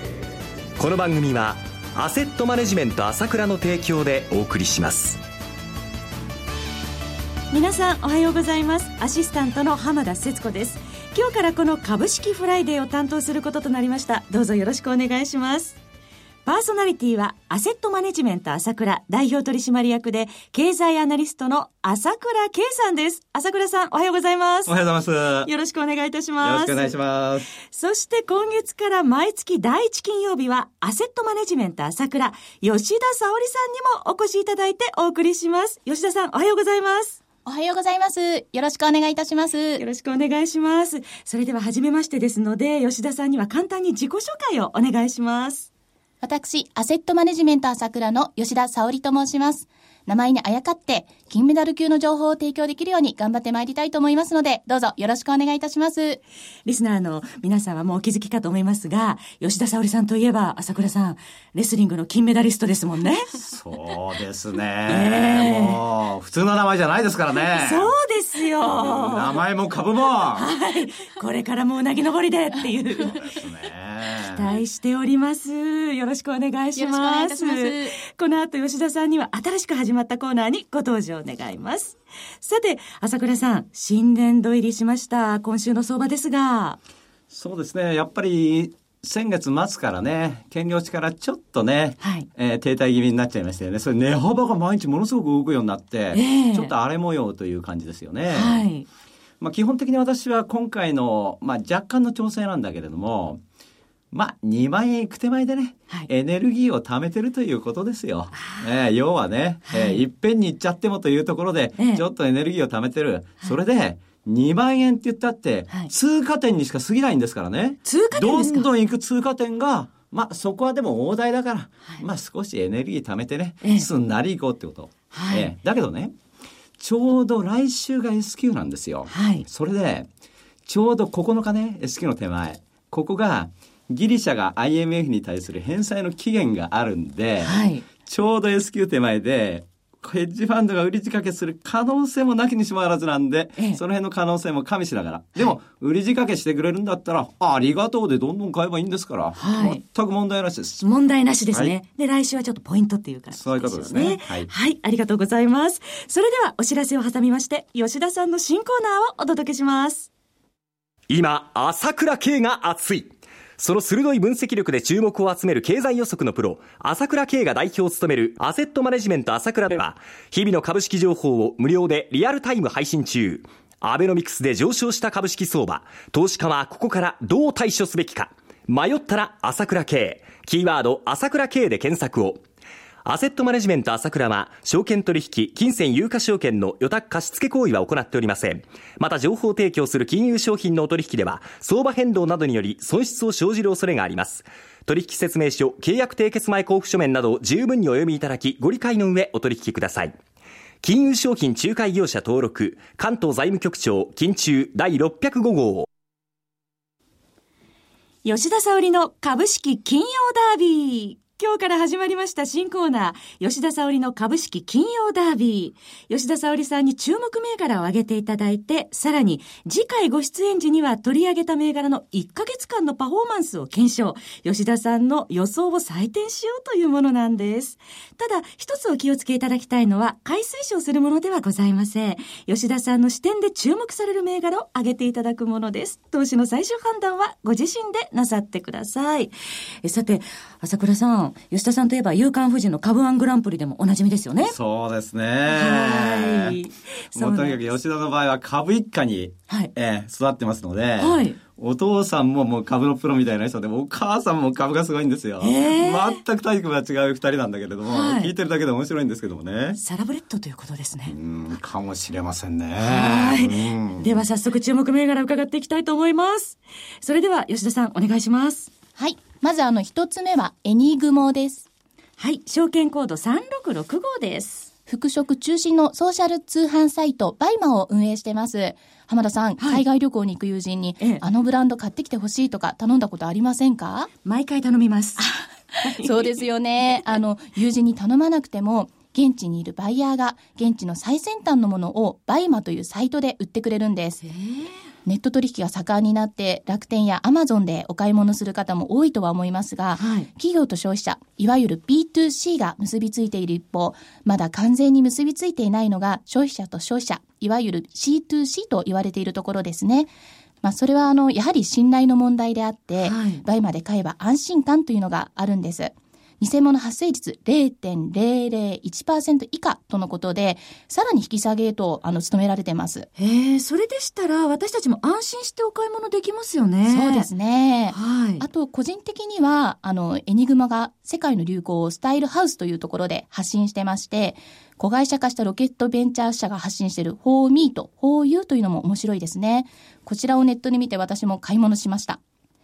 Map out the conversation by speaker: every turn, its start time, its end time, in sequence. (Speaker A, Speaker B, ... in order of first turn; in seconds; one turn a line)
Speaker A: 0.8-5.2
Speaker B: 7.5-15.8
Speaker B: 16.4-24.8
Speaker C: 24.7-25.5
Speaker B: 25.4-27.0
Speaker C: 26.4-27.5
Speaker B: 27.7-37.2
Speaker D: 37.5-39.9
Speaker B: 39.8-45.7
Speaker D: 46.2-56.2
Speaker B: 56.7-63.4
Speaker C: 63.5-67.9
Speaker B: 64.9-65.8
Speaker B: 67.4-69.4
Speaker C: 68.6-70.5
Speaker B: 70.3-73.2
Speaker C: 73.0-74.5
Speaker B: 74.2-86.8
Speaker D: 76.8-78.0
Speaker C: 87.3-98.7
Speaker B: 92.0-92.3
Speaker B: 96.1-96.7
Speaker B: 98.3-98.9
Speaker C: 99.4-103.4
Speaker C: 104.1-126.2
Speaker B: 108.4-108.7
Speaker B: 109.7-110.0
Speaker B: 111.8-112.0
Speaker B: 117.8-118.7
Speaker B: 123.6-123.9
Speaker B: 125.1-125.5
Speaker C: 126.8-130.1
Speaker B: 129.1-129.4
Speaker C: 130.7-150.8
Speaker B: 137.4-137.8
Speaker B: 149.4-149.8
Speaker B: 150.8-160.1
Speaker C: 153.3-154.5
Speaker A: 161.1-182.4
Speaker A: 183.1-200.2
Speaker A: 200.8-205.9
Speaker B: 208.2-244.6
Speaker C: 244.4-246.6
Speaker B: 245.5-247.7
Speaker C: 247.2-259.8
Speaker B: 251.0-251.4
Speaker B: 255.4-256.2
Speaker B: 257.9-258.3
Speaker B: 259.8-261.2
Speaker C: 261.1-264.1
Speaker B: 262.8-268.7
Speaker D: 269.0-271.7
Speaker B: 272.2-274.7
Speaker D: 274.9-284.1
Speaker B: 279.6-279.8
Speaker B: 284.2-285.3
Speaker D: 285.2-294.2
Speaker B: 285.8-286.3
Speaker B: 294.2-294.7
Speaker D: 295.1-323.1
Speaker B: 300.0-300.3
Speaker B: 313.0-313.4
Speaker B: 323.2-327.3
Speaker D: 326.9-342.2
Speaker B: 327.9-328.4